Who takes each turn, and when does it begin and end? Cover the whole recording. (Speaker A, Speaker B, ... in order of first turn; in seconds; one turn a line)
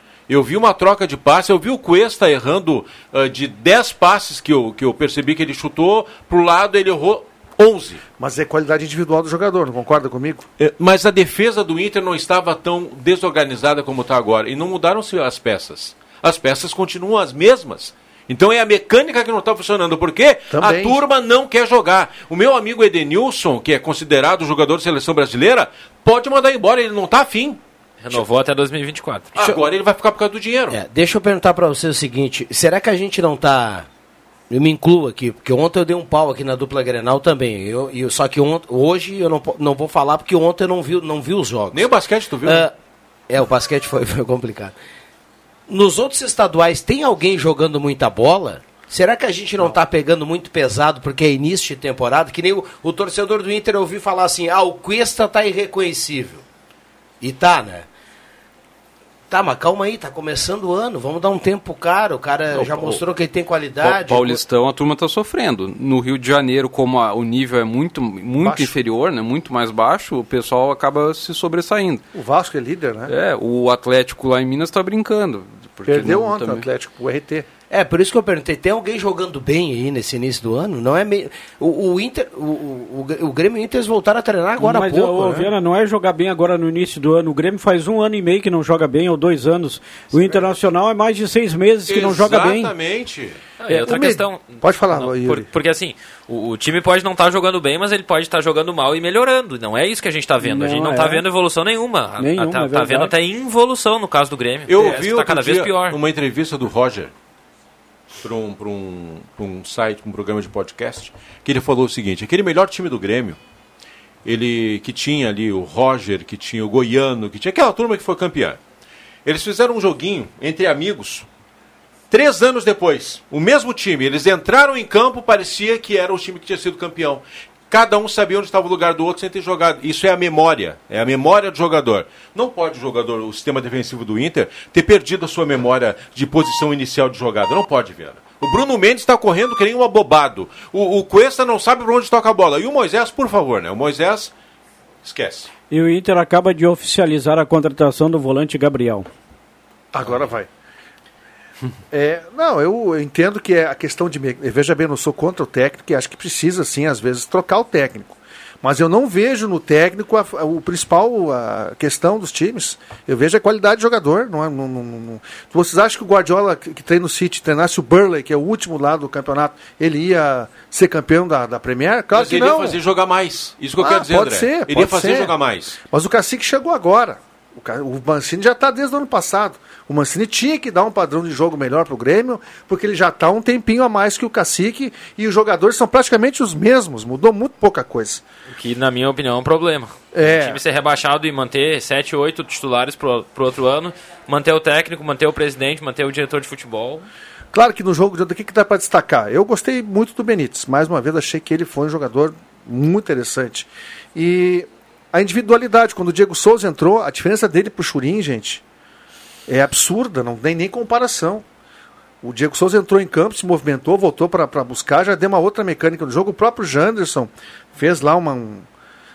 Speaker A: 0.3-8.0
Speaker B: 8.2-10.4
Speaker A: 10.6-27.6
Speaker B: 20.5-21.0
Speaker C: 28.0-29.4
Speaker A: 29.3-30.8
Speaker D: 30.7-33.9
Speaker D: 34.5-41.9
Speaker A: 41.7-42.6
Speaker D: 42.4-42.7
Speaker D: 43.3-44.7
Speaker D: 45.7-56.4
Speaker D: 57.2-57.9
Speaker D: 59.3-64.4
Speaker E: 62.5-63.0
Speaker E: 63.8-72.0
Speaker B: 68.4-68.8
Speaker B: 72.1-73.1
Speaker E: 73.1-76.6
Speaker B: 75.8-77.5
Speaker D: 77.7-85.4
Speaker F: 84.6-92.7
Speaker A: 91.9-93.4
Speaker C: 93.6-106.0
Speaker B: 93.7-95.5
Speaker F: 100.4-101.2
Speaker F: 102.2-103.1
Speaker A: 104.7-107.1
Speaker A: 108.2-113.4
Speaker A: 114.2-118.6
Speaker A: 119.2-121.2
Speaker A: 122.1-144.3
Speaker A: 145.0-145.5
Speaker F: 145.7-149.1
Speaker B: 149.9-150.5
Speaker B: 151.9-172.8
Speaker A: 172.1-175.8
Speaker B: 173.8-188.2
Speaker C: 188.5-197.1
Speaker B: 190.1-190.6
Speaker B: 197.5-208.6
Speaker B: 209.5-211.4
Speaker B: 212.2-218.7